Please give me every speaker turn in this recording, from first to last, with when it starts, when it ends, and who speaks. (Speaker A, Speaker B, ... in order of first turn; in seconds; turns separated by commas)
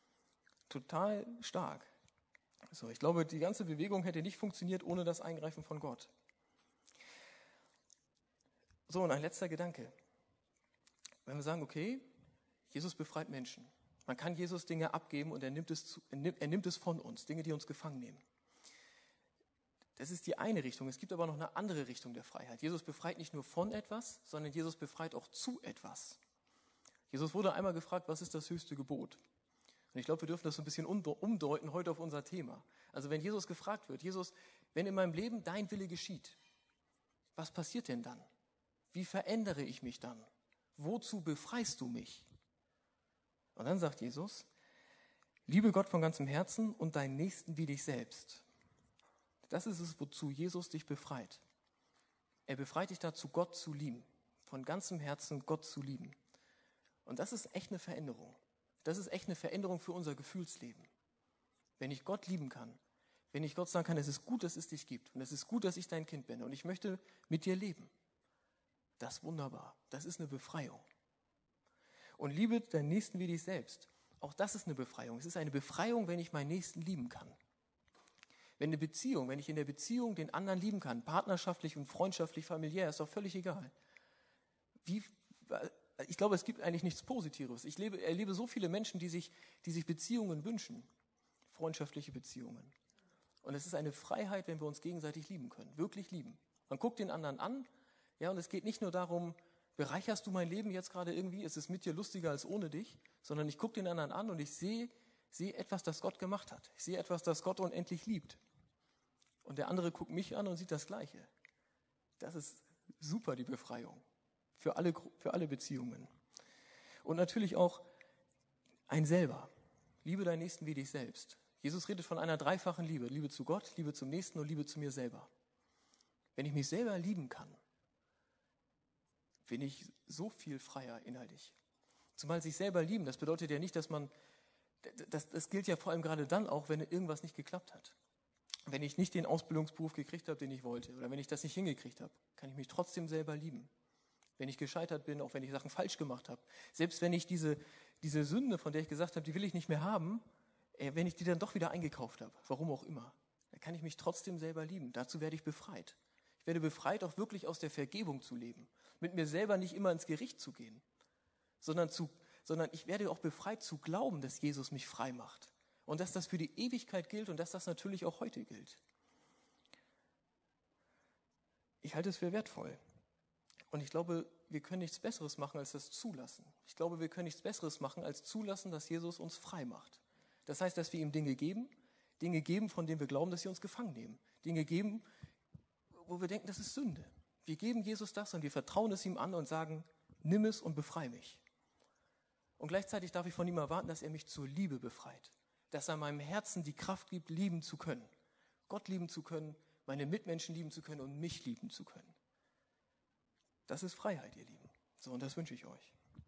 Speaker A: 0.7-1.9, Speaker A: 2.7-6.1, Speaker A: 8.9-9.9, Speaker A: 11.2-12.1, Speaker A: 12.7-18.2, Speaker A: 20.0-26.2, Speaker A: 27.1-29.2, Speaker A: 29.9-36.4, Speaker A: 37.4-38.3, Speaker A: 38.9-42.3, Speaker A: 43.5-44.5, Speaker A: 45.5-48.4, Speaker A: 49.5-51.4, Speaker A: 52.5-56.2, Speaker A: 57.0-60.9, Speaker A: 61.8-62.8, Speaker A: 63.3-67.9, Speaker A: 69.0-70.8, Speaker A: 72.2-77.4, Speaker A: 78.6-83.7, Speaker A: 84.8-90.9, Speaker A: 91.5-92.7, Speaker A: 93.4-97.7, Speaker A: 98.2-108.4, Speaker A: 109.4-111.3, Speaker A: 112.2-114.0, Speaker A: 114.6-116.1, Speaker A: 117.0-117.8, Speaker A: 118.9-119.5, Speaker A: 120.0-125.3, Speaker A: 126.3-127.6, Speaker A: 129.4-131.6, Speaker A: 132.2-134.1, Speaker A: 134.8-137.9, Speaker A: 138.7-143.7, Speaker A: 144.4-150.2, Speaker A: 150.8-160.8, Speaker A: 161.6-168.8, Speaker A: 171.8-172.8, Speaker A: 173.7-185.1, Speaker A: 185.9-191.4, Speaker A: 192.6-198.1, Speaker A: 198.7-202.2, Speaker A: 203.7-205.9